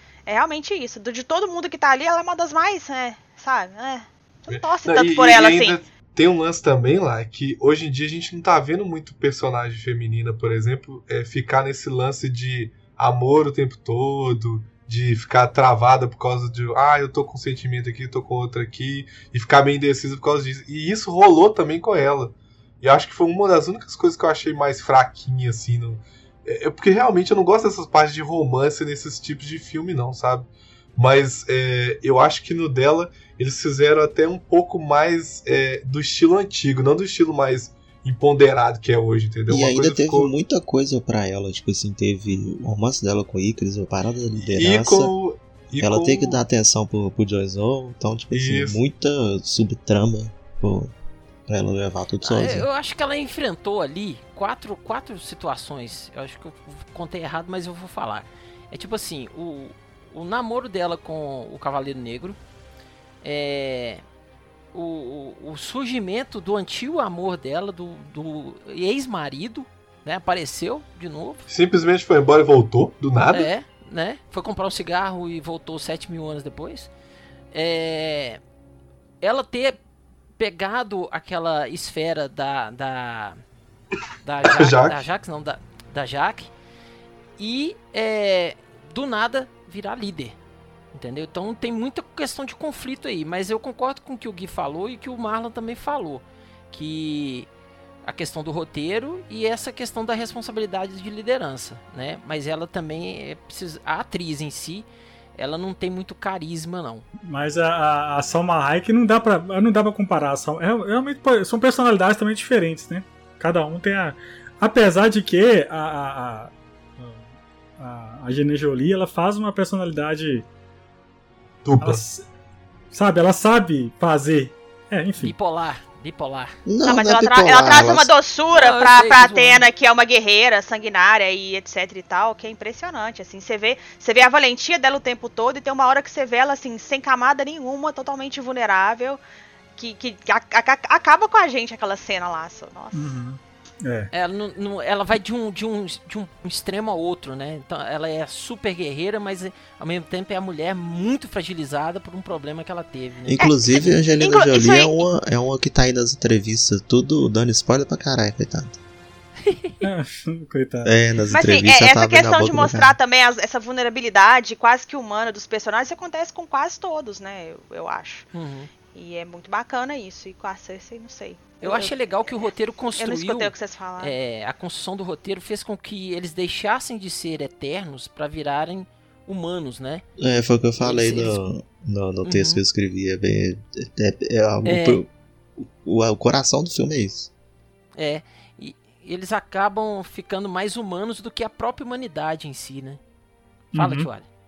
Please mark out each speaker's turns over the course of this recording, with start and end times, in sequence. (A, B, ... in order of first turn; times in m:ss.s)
0:00.3-0:05.8 A
0:04.5-0:40.3 B
0:39.5-0:45.1 C
0:44.4-0:46.4 B
0:45.8-0:50.9 C
0:48.3-0:48.8 B
0:51.5-0:52.7 C
0:52.2-1:02.4 D
1:03.2-1:04.0 D
1:04.7-1:11.4 D
1:11.5-1:13.5 B
1:13.3-1:16.9 D
1:17.5-1:18.4 D
1:19.2-1:19.8 D
1:20.4-1:23.4 D
1:24.2-1:26.5 D
1:24.4-1:25.0 B
1:27.4-1:30.3 D
1:30.9-1:37.5 D
1:38.0-1:47.0 D
1:47.2-2:00.4 E
2:01.6-2:02.0 B
2:01.8-2:02.3 E
2:02.9-2:05.3 E
2:05.2-2:06.5 D
2:06.6-2:08.1 C
2:06.8-2:19.2 A
2:08.5-2:09.6 D
2:19.8-2:23.1 A
2:22.9-2:24.1 E
2:24.1-2:33.9 D
2:33.2-2:38.8 C
2:34.2-2:35.1 A
2:39.4-2:39.7 D
2:39.8-2:40.9 E
2:40.8-2:43.0 C
2:41.3-2:48.2 A
2:48.3-2:48.7 D
2:48.9-2:51.9 A
2:51.6-3:00.0 D
2:53.0-2:54.1 A
3:00.2-3:07.3 C
3:00.8-3:01.4 D
3:02.2-3:02.6 D
3:04.6-3:05.0 D
3:08.0-3:13.0 D
3:13.7-3:14.1 E
3:13.7-3:14.2 D